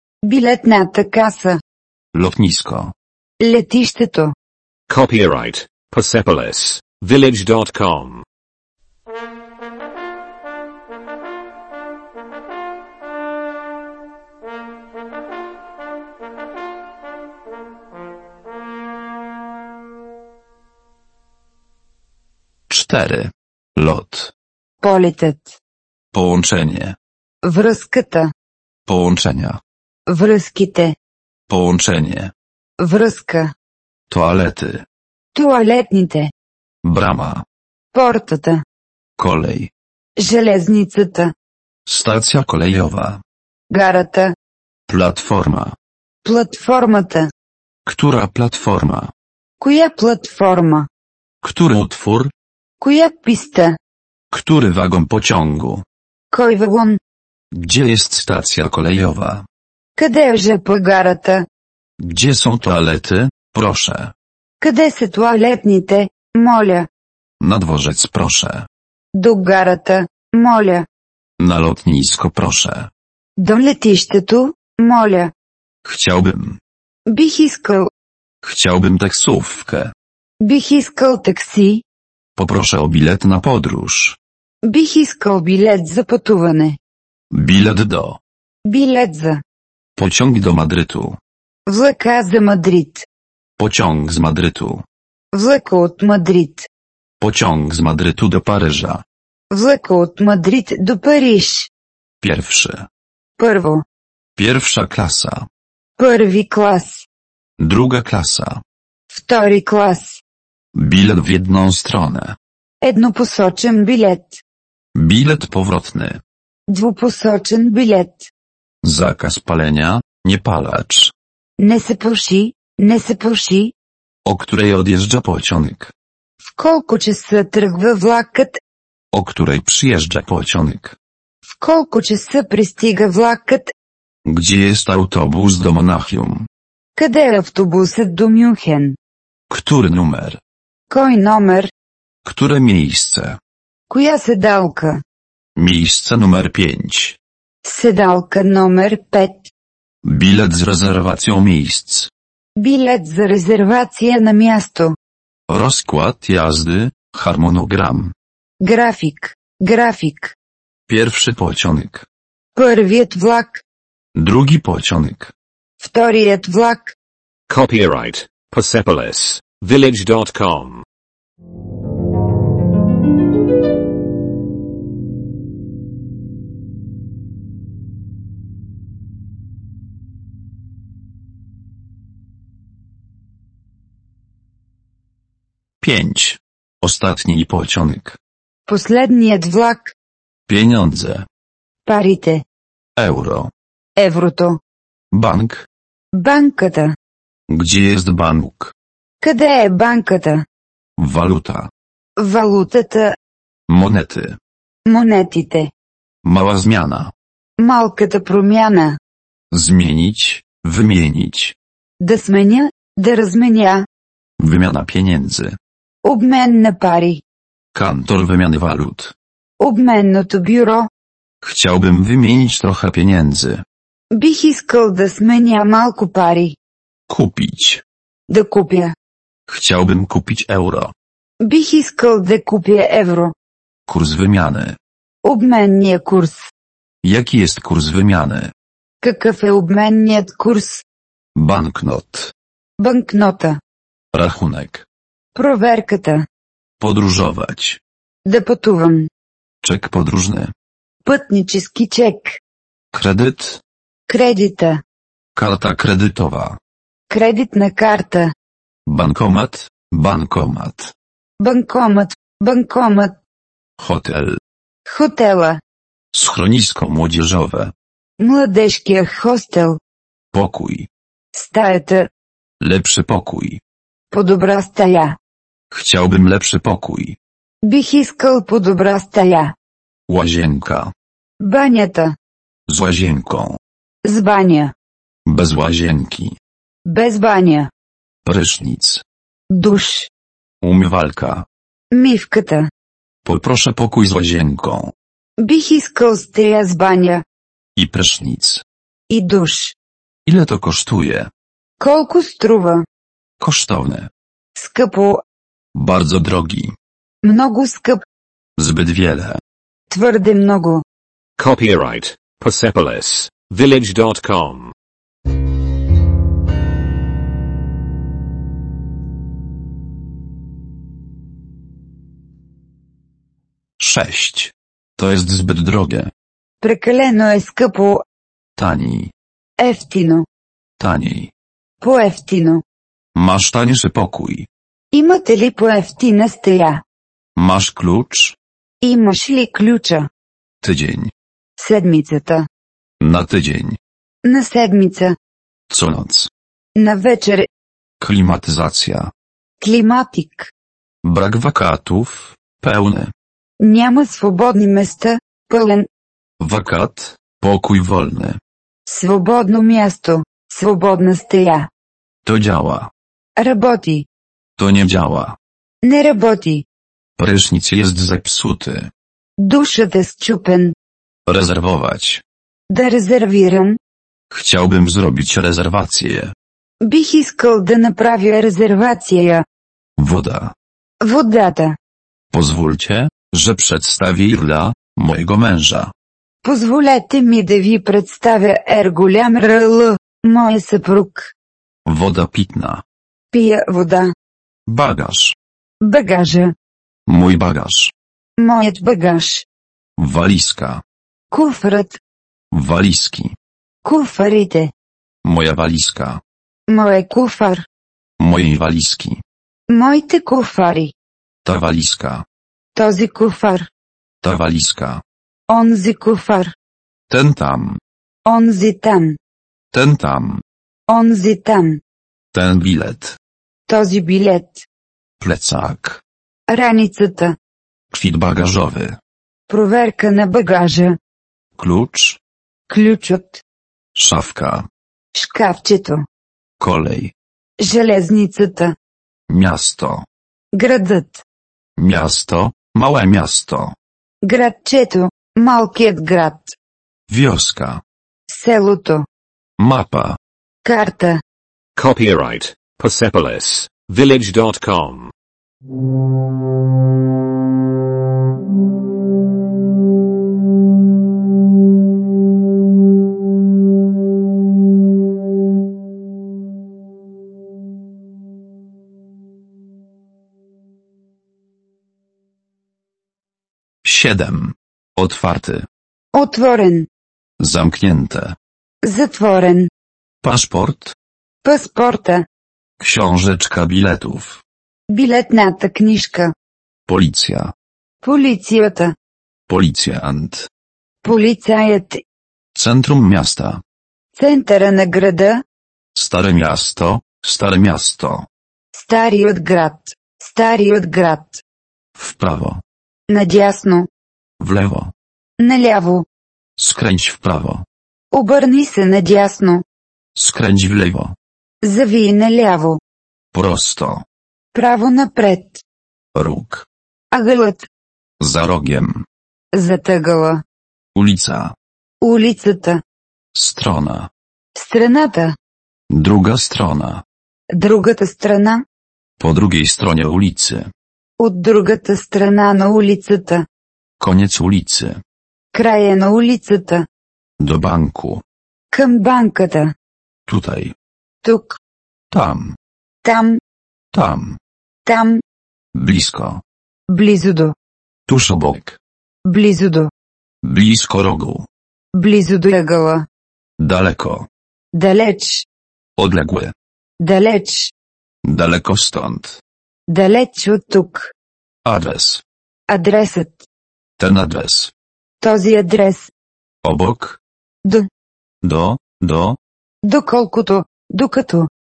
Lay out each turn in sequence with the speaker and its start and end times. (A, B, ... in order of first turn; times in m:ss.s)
0:00.2-0:01.6 A
0:02.1-0:02.9 B
0:03.4-0:04.3 A
0:04.9-0:08.2 C
0:22.7-0:24.3 B
0:24.8-0:25.6 A
0:26.1-0:27.0 B
0:27.4-0:28.3 A
0:28.9-0:29.6 B
0:30.1-0:30.9 A
0:31.5-0:32.3 B
0:32.8-0:33.5 A
0:34.1-0:34.8 B
0:35.3-0:36.3 A
0:36.8-0:37.4 B
0:37.9-0:38.6 A
0:39.2-0:39.7 B
0:40.2-0:41.3 A
0:41.8-0:43.2 B
0:43.7-0:44.3 A
0:44.9-0:45.7 B
0:46.2-0:47.3 A
0:47.8-0:49.1 B
0:49.6-0:50.9 A
0:51.4-0:52.3 B
0:52.8-0:53.8 A
0:54.3-0:55.8 B
0:56.3-0:57.0 A
0:57.5-0:59.5 B
1:00.0-1:01.4 A
1:02.0-1:04.1 B
1:04.6-1:06.9 A
1:07.4-1:08.7 B
1:09.1-1:10.8 A
1:11.4-1:12.9 B
1:13.4-1:15.3 A
1:15.8-1:16.6 B
1:17.1-1:17.9 A
1:18.4-1:19.9 B
1:20.4-1:21.8 A
1:22.4-1:24.2 B
1:24.6-1:26.8 A
1:27.3-1:28.2 B
1:28.6-1:29.4 A
1:30.0-1:31.2 B
1:31.7-1:33.0 A
1:33.6-1:34.8 B
1:35.3-1:36.7 A
1:37.2-1:39.0 B
1:39.5-1:41.7 A
1:42.2-1:42.9 B
1:43.4-1:43.8 A
1:44.4-1:45.5 B
1:46.0-1:47.0 A
1:47.6-1:48.6 B
1:49.1-1:50.2 A
1:50.7-1:52.4 B
1:52.8-1:54.4 A
1:54.9-1:56.2 B
1:56.7-1:58.3 A
1:58.8-2:01.1 B
2:01.6-2:03.7 A
2:04.2-2:05.9 B
2:06.4-2:08.6 A
2:09.1-2:11.0 B
2:11.5-2:13.7 A
2:14.2-2:16.5 B
2:17.0-2:19.0 A
2:19.5-2:20.4 B
2:20.9-2:21.7 A
2:22.2-2:23.4 B
2:23.9-2:25.0 A
2:25.6-2:27.2 B
2:27.6-2:29.5 A
2:30.0-2:32.1 B
2:32.6-2:34.9 A
2:35.5-2:38.1 B
2:38.6-2:40.3 A
2:40.9-2:42.0 B
2:42.6-2:43.6 A
2:44.1-2:45.3 B
2:45.8-2:46.9 A
2:47.5-2:50.8 C
3:05.8-3:08.2 B
3:08.7-3:09.9 A
3:10.5-3:11.3 B
3:11.8-3:12.4 A
3:13.0-3:13.5 B
3:14.0-3:14.6 A
3:15.1-3:15.7 B
3:16.1-3:16.9 A
3:17.5-3:18.7 B
3:19.2-3:20.4 A
3:21.0-3:21.7 B
3:22.2-3:23.2 A
3:23.7-3:24.4 B
3:24.9-3:25.7 A
3:26.2-3:27.1 B
3:27.6-3:29.0 A
3:29.5-3:31.5 B
3:32.0-3:33.8 A
3:34.4-3:35.6 B
3:36.0-3:37.2 A
3:37.7-3:39.1 B
3:39.6-3:40.9 A
3:41.4-3:43.6 B
3:44.1-3:46.6 A
3:47.1-3:47.8 B
3:48.3-3:48.9 A
3:49.5-3:50.9 B
3:51.4-3:53.3 A
3:53.9-3:54.8 B
3:55.2-3:56.5 A
3:57.0-3:58.5 B
3:59.0-4:00.8 A
4:01.3-4:02.3 B
4:02.8-4:03.6 A
4:04.1-4:04.8 B
4:05.3-4:06.2 A
4:06.8-4:07.8 B
4:08.2-4:09.1 A
4:09.6-4:10.5 B
4:11.0-4:12.4 A
4:12.9-4:13.6 B
4:14.1-4:14.8 A
4:15.3-4:16.6 B
4:17.1-4:18.3 A
4:18.8-4:20.9 B
4:21.4-4:23.2 A
4:23.8-4:24.4 B
4:24.8-4:25.6 A
4:26.1-4:27.7 B
4:28.2-4:29.8 A
4:30.3-4:30.9 B
4:31.3-4:32.1 A
4:32.6-4:33.6 B
4:34.1-4:35.2 A
4:35.7-4:37.2 B
4:37.6-4:39.5 A
4:40.1-4:40.9 B
4:41.4-4:42.1 A
4:42.7-4:43.6 B
4:44.0-4:44.7 A
4:45.2-4:46.4 B
4:46.8-4:47.7 A
4:48.2-4:49.0 B
4:49.5-4:50.1 A
4:50.6-4:51.4 B
4:51.9-4:52.7 A
4:53.2-4:54.9 B
4:55.4-4:57.2 A
4:57.8-4:58.6 B
4:59.1-4:59.7 A
5:00.2-5:01.3 B
5:01.8-5:02.8 A
5:03.4-5:04.1 B
5:04.6-5:05.2 A
5:05.7-5:06.8 B
5:07.2-5:08.0 A
5:08.6-5:09.4 B
5:09.9-5:10.8 A
5:11.4-5:14.7 C
5:23.8-5:26.1 B
5:26.6-5:28.0 A
5:28.6-5:29.1 B
5:29.6-5:30.2 A
5:30.8-5:31.3 B
5:31.8-5:32.6 A
5:33.1-5:34.5 B
5:34.9-5:36.8 A
5:37.4-5:38.4 B
5:38.8-5:40.1 A
5:40.6-5:41.1 B
5:41.6-5:42.5 A
5:43.0-5:43.8 B
5:44.2-5:45.2 A
5:45.7-5:46.3 B
5:46.8-5:47.5 A
5:48.0-5:49.1 B
5:49.6-5:50.5 A
5:51.0-5:53.1 B
5:53.6-5:55.9 A
5:56.4-5:58.4 B
5:58.9-6:01.7 A
6:02.2-6:02.9 B
6:03.4-6:04.1 A
6:04.6-6:05.4 B
6:05.8-6:06.6 A
6:07.2-6:08.9 B
6:09.4-6:10.7 A
6:11.3-6:12.2 B
6:12.7-6:13.8 A
6:14.3-6:16.3 B
6:16.8-6:19.4 A
6:20.0-6:20.5 B
6:21.0-6:21.8 A
6:22.3-6:25.9 B
6:26.4-6:31.3 A
6:31.8-6:32.8 B
6:33.3-6:34.1 A
6:34.7-6:35.3 B
6:35.8-6:36.5 A
6:37.1-6:37.9 B
6:38.4-6:39.4 A
6:40.0-6:40.8 B
6:41.3-6:42.0 A
6:42.5-6:43.3 B
6:43.8-6:44.7 A
6:45.2-6:46.2 B
6:46.7-6:47.6 A
6:48.2-6:49.2 B
6:49.7-6:50.9 A
6:51.4-6:52.2 B
6:52.8-6:53.7 A
6:54.2-6:55.0 B
6:55.5-6:56.5 A
6:57.1-6:57.8 B
6:58.2-6:59.2 A
6:59.7-7:00.4 B
7:00.9-7:01.8 A
7:02.3-7:03.2 B
7:03.7-7:04.6 A
7:05.2-7:06.0 B
7:06.5-7:07.4 A
7:07.9-7:09.0 B
7:09.5-7:11.0 A
7:11.6-7:12.2 B
7:12.7-7:13.4 A
7:13.9-7:14.7 B
7:15.1-7:16.0 A
7:16.6-7:17.1 B
7:17.6-7:18.7 A
7:19.3-7:20.0 B
7:20.5-7:21.2 A
7:21.8-7:23.7 B
7:24.2-7:26.5 A
7:27.1-7:27.8 B
7:28.3-7:29.0 A
7:29.6-7:30.2 B
7:30.6-7:31.2 A
7:31.8-7:35.1 C
7:53.8-7:55.7 B
7:56.1-7:56.9 A
7:57.4-7:58.4 B
7:58.8-7:59.7 A
8:00.2-8:00.9 B
8:01.4-8:02.2 A
8:02.8-8:04.4 B
8:04.9-8:06.3 A
8:06.9-8:07.5 B
8:08.0-8:08.9 A
8:09.5-8:10.5 B
8:11.0-8:12.0 A
8:12.5-8:13.6 B
8:14.1-8:15.4 A
8:15.9-8:18.3 B
8:18.7-8:21.4 A
8:22.0-8:22.6 B
8:23.1-8:23.9 A
8:24.4-8:24.9 B
8:25.4-8:26.0 A
8:26.6-8:27.6 B
8:28.1-8:29.6 A
8:30.1-8:31.2 B
8:31.6-8:32.8 A
8:33.3-8:34.0 B
8:34.5-8:35.6 A
8:36.1-8:36.7 B
8:37.1-8:37.7 A
8:38.2-8:39.0 B
8:39.5-8:40.4 A
8:40.9-8:41.5 B
8:42.0-8:42.8 A
8:43.3-8:44.1 B
8:44.6-8:45.4 A
8:45.9-8:47.0 B
8:47.5-8:48.6 A
8:49.2-8:50.7 B
8:51.2-8:53.4 A
8:54.0-8:55.0 B
8:55.5-8:56.8 A
8:57.4-8:58.2 B
8:58.7-8:59.7 A
9:00.3-9:00.7 B
9:01.2-9:01.6 A
9:02.1-9:02.6 B
9:03.0-9:03.4 A
9:03.9-9:04.4 B
9:04.8-9:05.2 A
9:05.7-9:06.4 B
9:06.9-9:07.5 A
9:08.1-9:08.8 B
9:09.2-9:09.9 A
9:10.4-9:11.5 B
9:11.9-9:13.1 A
9:13.6-9:14.3 B
9:14.7-9:15.4 A
9:16.0-9:16.5 B
9:17.0-9:17.7 A
9:18.2-9:19.4 B
9:19.9-9:21.1 A
9:21.6-9:22.2 B
9:22.7-9:23.4 A
9:24.0-9:24.7 B
9:25.2-9:26.1 A
9:26.6-9:27.2 B
9:28.4-9:29.4 B
9:29.8-9:31.5 A